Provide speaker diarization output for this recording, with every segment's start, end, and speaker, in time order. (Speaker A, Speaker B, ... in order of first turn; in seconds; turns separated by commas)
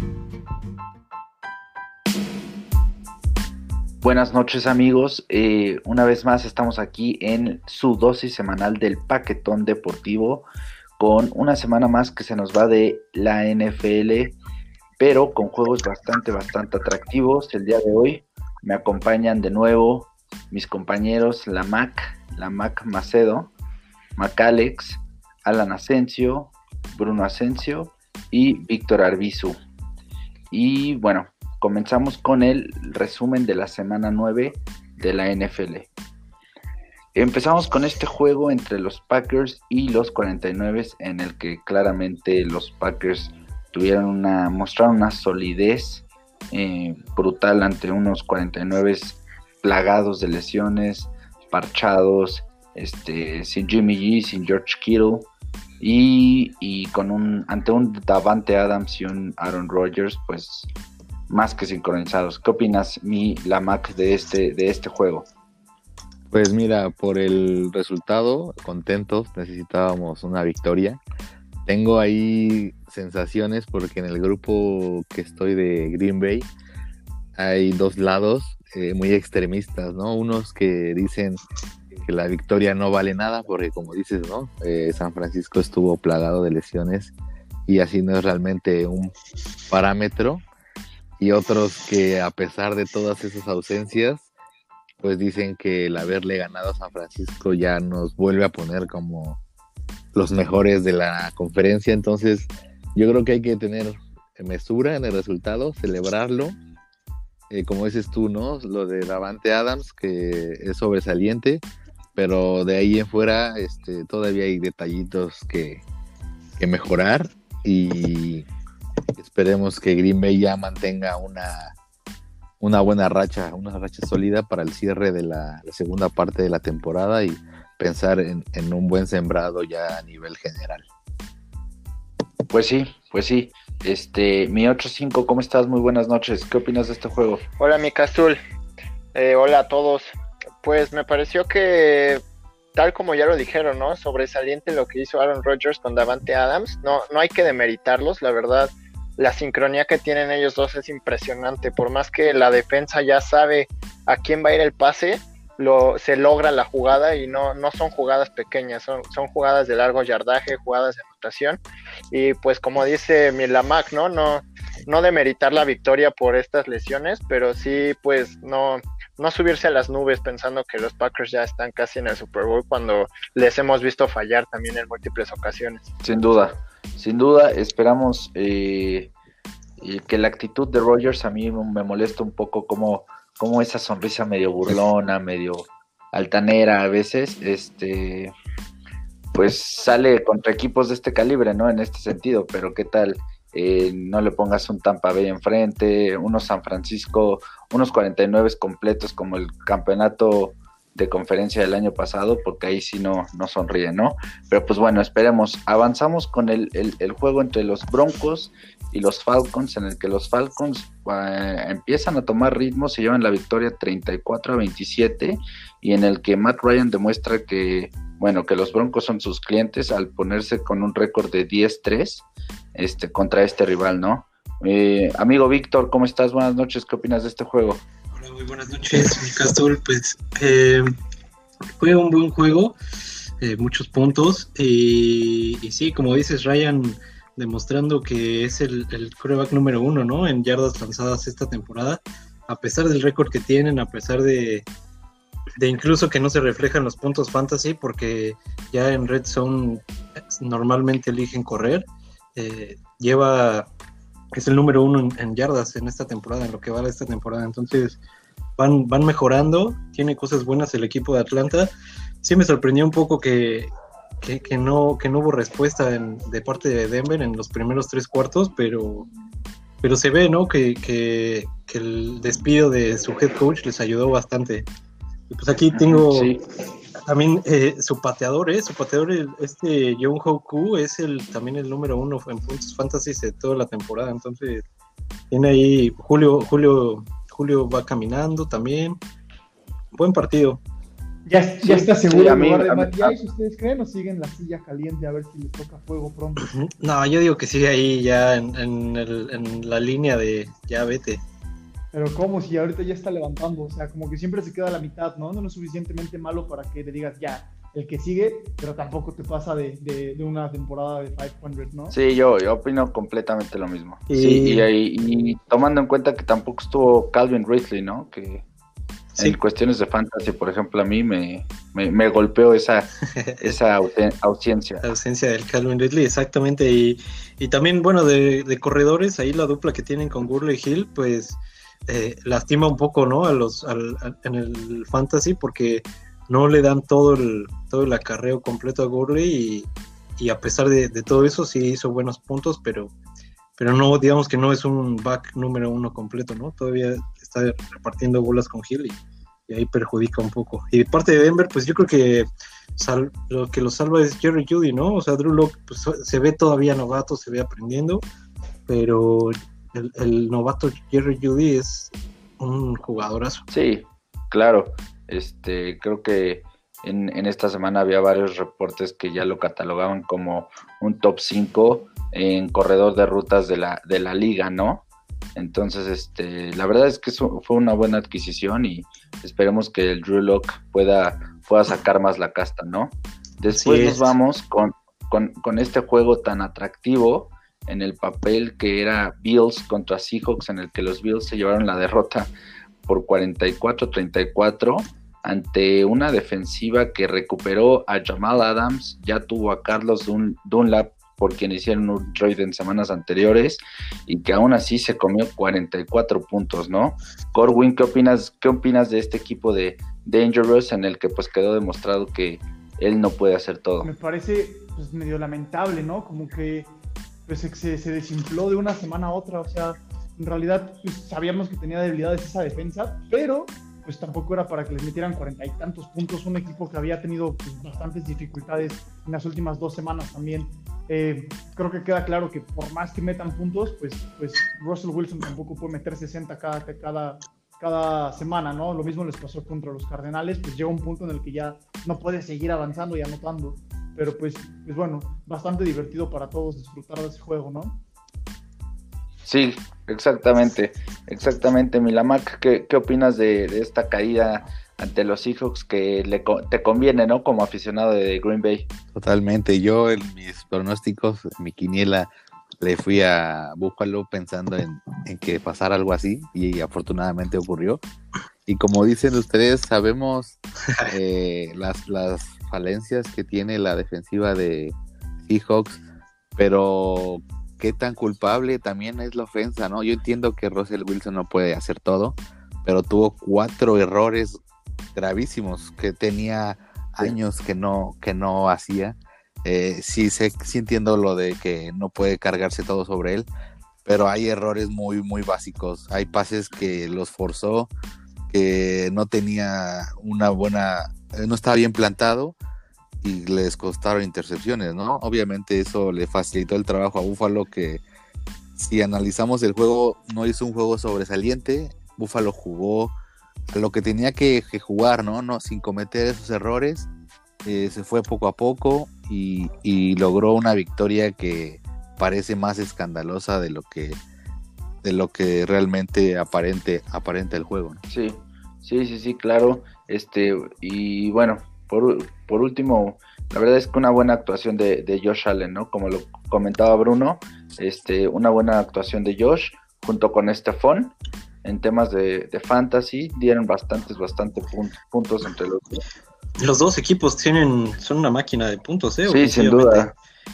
Speaker A: 4.0-10.5, Speaker A: 11.0-14.4, Speaker A: 15.0-23.5, Speaker A: 24.2-29.6, Speaker A: 30.5-35.9, Speaker A: 37.1-55.3, Speaker A: 55.8-60.7, Speaker A: 61.3-65.3, Speaker B: 66.3-71.0, Speaker B: 71.7-76.5, Speaker B: 77.3-81.4, Speaker B: 81.9-87.1, Speaker B: 87.7-89.1, Speaker B: 89.7-90.4, Speaker B: 91.2-94.3, Speaker B: 95.0-99.4, Speaker B: 100.1-106.5, Speaker B: 107.5-111.6, Speaker B: 112.2-115.8, Speaker B: 116.6-118.5, Speaker B: 119.2-121.7, Speaker B: 122.6-130.8, Speaker A: 132.5-137.4, Speaker C: 137.6-138.4, Speaker C: 139.1-140.1, Speaker C: 140.6-142.2, Speaker C: 142.7-161.6, Speaker C: 162.1-175.9, Speaker A: 176.0-179.1, Speaker A: 179.8-188.3, Speaker A: 189.3-227.8, Speaker D: 228.1-230.9, Speaker D: 231.8-232.8, Speaker D: 233.4-244.6, Speaker D: 245.6-249.8, Speaker D: 250.4-253.7, Speaker D: 254.3-258.0, Speaker D: 258.6-261.7, Speaker D: 262.2-263.7, Speaker D: 264.2-269.1, Speaker D: 269.8-274.7, Speaker D: 275.3-276.4, Speaker A: 275.7-276.4, Speaker D: 277.0-284.6, Speaker D: 285.3-289.0, Speaker D: 289.9-290.6, Speaker E: 291.2-296.5, Speaker A: 291.6-293.1, Speaker D: 296.4-301.2, Speaker E: 301.9-311.9, Speaker A: 311.9-318.4, Speaker D: 314.1-314.7, Speaker A: 319.2-324.8, Speaker D: 323.2-323.5, Speaker D: 324.8-342.9, Speaker D: 343.6-358.0, Speaker D: 358.7-363.4, Speaker A: 363.5-392.3, Speaker D: 383.5-384.1, Speaker A: 392.9-413.9, Speaker E: 413.8-416.7, Speaker E: 417.2-447.8, Speaker A: 449.2-458.7, Speaker B: 458.9-467.8, Speaker B: 468.5-474.8, Speaker B: 475.3-475.8, Speaker B: 476.4-484.4, Speaker B: 484.9-493.3, Speaker B: 493.8-497.7, Speaker B: 498.3-502.4, Speaker B: 503.0-507.8, Speaker B: 508.6-512.9, Speaker B: 513.5-516.9, Speaker B: 517.4-524.0, Speaker B: 524.8-527.8, Speaker A: 527.9-545.8, Speaker D: 546.4-549.9, Speaker A: 549.0-549.9